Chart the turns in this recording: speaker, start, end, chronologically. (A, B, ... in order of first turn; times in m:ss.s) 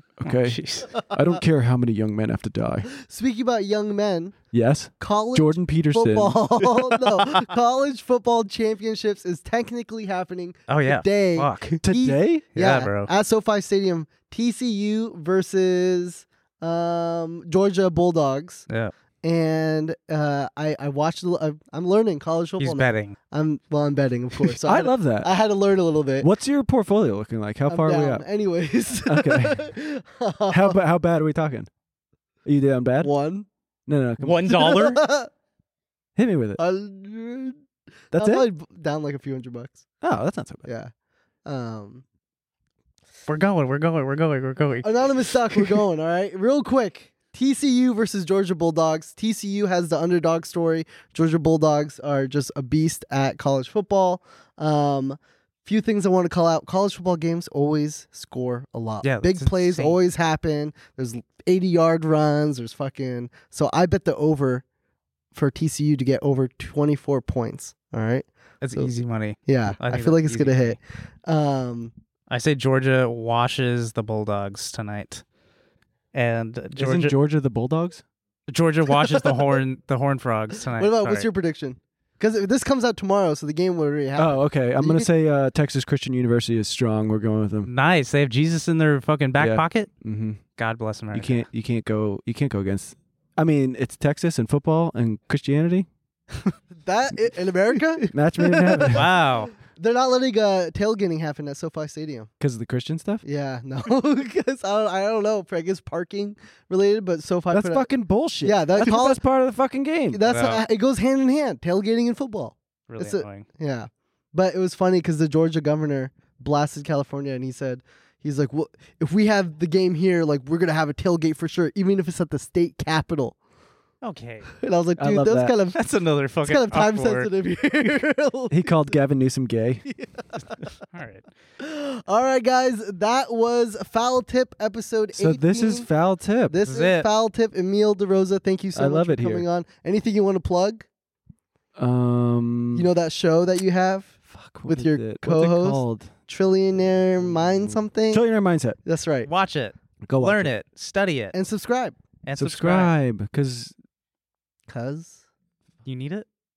0:00.2-0:02.9 A
0:00.2-0:00.9 B
0:03.0-0:04.4 C
0:04.5-0:06.4 A
0:05.0-0:18.6 C
0:10.7-0:11.8 B
0:11.8-0:12.5 A
0:12.5-0:13.1 B
0:19.2-0:26.3 C
0:22.6-0:23.2 B
0:24.4-0:25.3 A
0:26.2-0:28.2 A
0:27.7-0:30.8 C
0:29.0-0:29.7 A
0:30.5-0:31.7 A
0:32.4-0:33.1 A
0:33.0-0:33.5 C
0:33.9-0:34.8 A
0:34.2-0:35.0 B
0:34.5-0:35.3 C
0:36.2-0:36.6 A
0:36.6-0:37.6 C
0:38.1-0:38.5 A
0:38.1-0:39.8 C
0:40.0-0:40.7 A
0:40.6-0:40.9 C
0:41.4-0:42.0 C
0:43.3-0:45.8 B
0:44.8-1:04.6 C
0:59.0-1:00.0 B
1:05.3-1:08.9 C
1:08.6-1:10.8 B
1:09.4-1:11.9 C
1:12.3-1:15.2 B
1:16.1-1:17.1 B
1:16.8-1:18.0 A
1:18.5-1:21.3 B
1:19.0-1:19.5 C
1:20.8-1:25.1 C
1:24.2-1:27.7 A
1:27.6-1:29.9 B
1:29.4-1:30.4 A
1:30.6-1:31.4 B
1:31.1-1:35.9 A
1:36.8-1:39.0 C
1:38.1-1:39.1 A
1:38.7-1:39.5 B
1:39.6-1:42.3 C
1:42.4-1:43.2 A
1:43.2-1:47.9 C
1:47.5-1:50.2 A
1:48.4-1:49.2 C
1:50.1-2:03.4 C
1:50.3-1:50.6 B
1:52.9-1:53.4 B
2:04.0-2:04.5 B
2:04.6-2:05.8 C
2:05.0-2:05.5 A
2:05.7-2:07.3 B
2:06.4-2:08.9 C
2:08.5-2:09.8 A
2:09.8-2:10.7 C
2:10.9-2:11.3 B
2:11.6-2:15.9 C
2:15.1-2:16.6 A
2:16.5-2:20.8 C
2:16.6-2:17.1 B
2:18.7-2:19.4 A
2:21.8-2:22.9 A
2:22.7-2:24.2 C
2:24.3-2:26.1 A
2:24.7-2:28.3 C
2:27.8-2:28.8 A
2:28.8-2:29.3 C
2:29.2-2:31.3 B
2:30.0-2:30.5 A
2:31.3-2:32.0 C
2:32.2-2:32.9 B
2:32.4-2:33.7 A
2:34.7-2:35.2 C
2:35.8-2:36.2 B